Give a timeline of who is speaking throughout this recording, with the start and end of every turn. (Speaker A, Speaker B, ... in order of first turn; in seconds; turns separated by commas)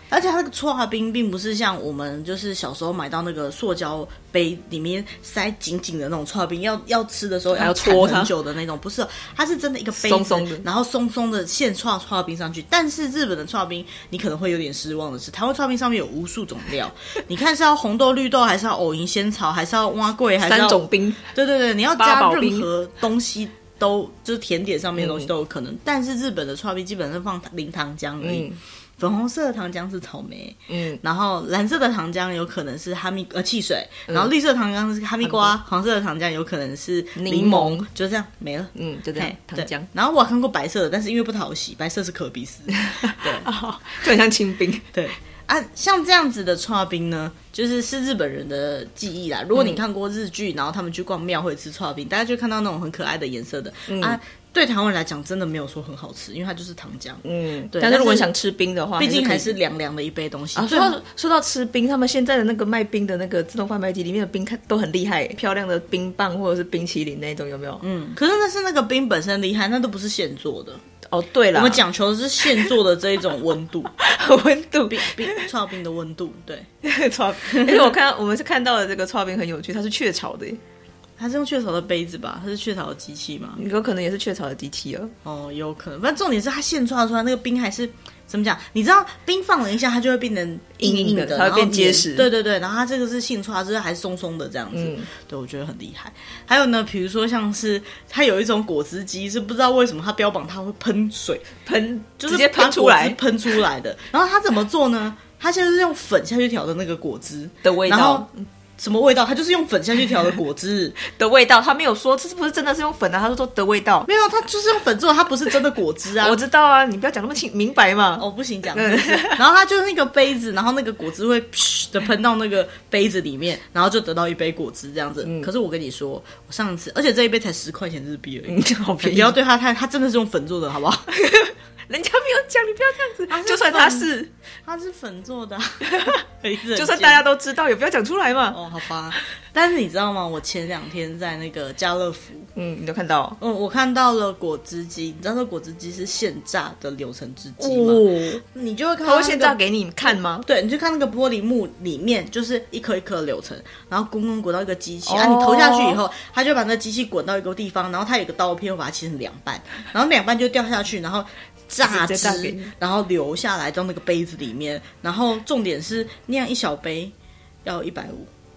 Speaker A: 0.1-43.5, Speaker B: 7.5-8.3, Speaker B: 10.0-10.7, Speaker B: 20.4-21.3, Speaker B: 22.0-22.7, Speaker B: 25.0-25.3, Speaker B: 28.2-28.6, Speaker B: 30.7-31.0, Speaker B: 35.2-35.5, Speaker B: 37.2-37.9, Speaker B: 38.8-39.9, Speaker B: 42.7-44.9, Speaker A: 44.9-58.3, Speaker B: 53.9-54.2, Speaker B: 57.2-59.5, Speaker A: 59.0-61.0, Speaker B: 60.6-67.8, Speaker A: 67.8-70.8, Speaker B: 71.1-71.8, Speaker A: 71.5-74.0, Speaker B: 74.0-75.5, Speaker A: 74.9-76.7, Speaker B: 76.8-80.6, Speaker A: 77.5-77.9, Speaker A: 81.2-83.6, Speaker B: 83.6-85.1, Speaker A: 85.2-101.6, Speaker B: 90.8-92.3, Speaker B: 94.7-95.1, Speaker B: 101.6-103.2, Speaker A: 102.2-108.3, Speaker B: 107.6-108.5, Speaker A: 108.8-111.0, Speaker B: 111.0-114.1, Speaker A: 114.1-116.4, Speaker B: 116.2-119.4, Speaker A: 118.2-131.1, Speaker B: 128.5-129.3, Speaker B: 131.1-134.3, Speaker A: 133.3-134.1, Speaker A: 134.7-137.2, Speaker B: 135.9-136.2, Speaker B: 136.7-138.6, Speaker A: 138.5-142.5, Speaker B: 142.6-143.4, Speaker A: 143.4-168.3, Speaker B: 147.6-148.4, Speaker B: 149.0-150.5, Speaker B: 155.1-156.0, Speaker B: 161.8-162.7